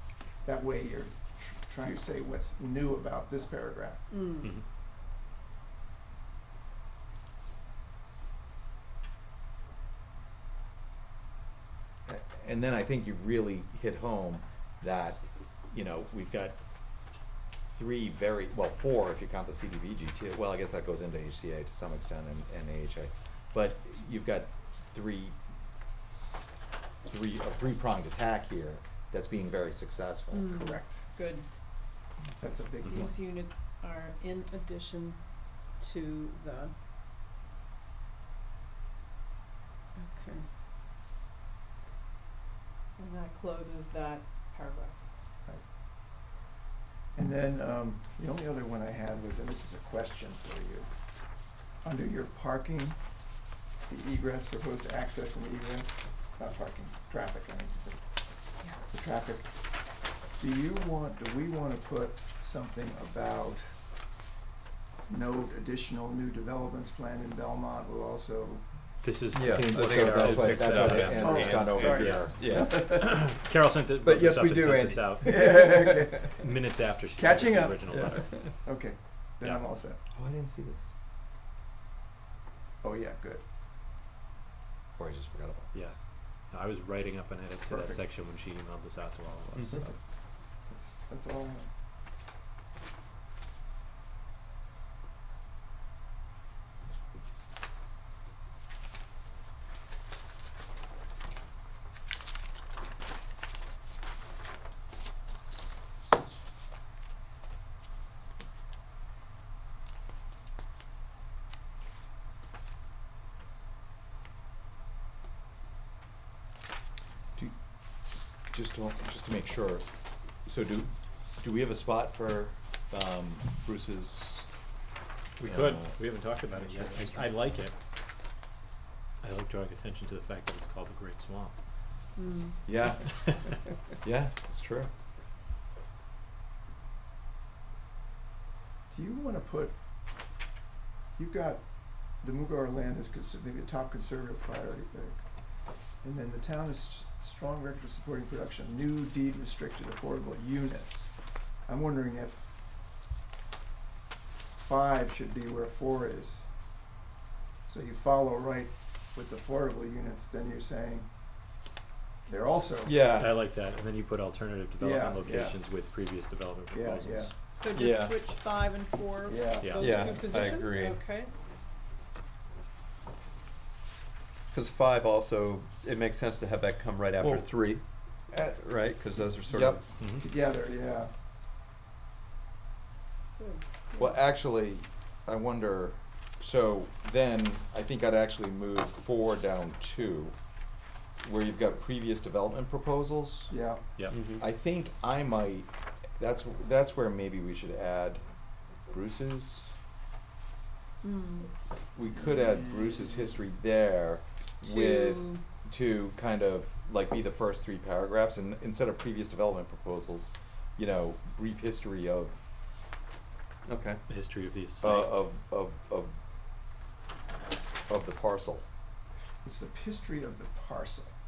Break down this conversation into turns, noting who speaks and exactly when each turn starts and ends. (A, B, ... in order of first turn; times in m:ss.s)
0:00.4-0:04.1 A
0:04.1-0:04.5 B
0:12.0-0:25.4 C
0:27.0-0:30.6 C
0:30.3-0:31.5 B
0:30.5-0:31.0 A
0:32.4-0:33.1 A
0:32.8-0:33.1 D
0:32.8-0:36.7 B
0:39.9-0:40.5 B
0:43.0-0:45.0 B
0:47.1-1:04.0 A
1:05.1-1:09.0 A
1:09.0-1:19.8 D
1:09.3-1:13.3 E
1:09.4-1:12.5 C
1:11.2-1:13.1 A
1:14.0-1:16.1 E
1:15.2-1:20.0 A
1:17.9-1:18.3 E
1:20.1-1:20.9 C
1:22.8-1:23.4 A
1:25.0-1:25.7 C
1:25.7-1:29.9 D
1:27.6-1:28.0 A
1:29.5-1:29.8 E
1:29.7-1:31.7 A
1:57.4-2:04.7 C
2:05.4-2:07.8 D
2:05.4-2:07.3 C
2:09.2-2:12.2 D
2:12.1-2:12.6 B
2:12.6-2:14.9 C
2:18.9-2:20.4 A
2:21.1-2:32.6 A
2:34.6-2:36.9 A
2:37.6-2:41.5 A
2:42.2-2:43.0 A
2:42.8-2:43.4 E
2:43.1-2:47.3 D
2:44.8-2:46.1 A
2:46.7-2:47.3 A
2:47.5-2:51.3 B
2:47.7-2:48.2 E
2:49.3-2:50.0 A
2:49.6-2:50.1 D
2:49.8-2:51.0 E
2:54.5-2:59.9 E
2:59.5-2:59.8 C
3:00.0-3:00.2 D
3:00.2-3:01.2 A
3:03.4-3:04.2 B
3:04.0-3:19.7 C
3:13.5-3:13.9 A
3:14.0-3:14.2 D
3:14.1-3:14.4 E
3:21.0-3:21.5 B
3:21.9-3:32.7 C
3:22.2-3:23.3 A
3:24.6-3:25.4 B
3:33.6-3:34.0 E
3:34.1-3:35.1 D
3:34.8-3:36.2 C
3:37.9-3:38.6 C
3:39.4-3:41.1 A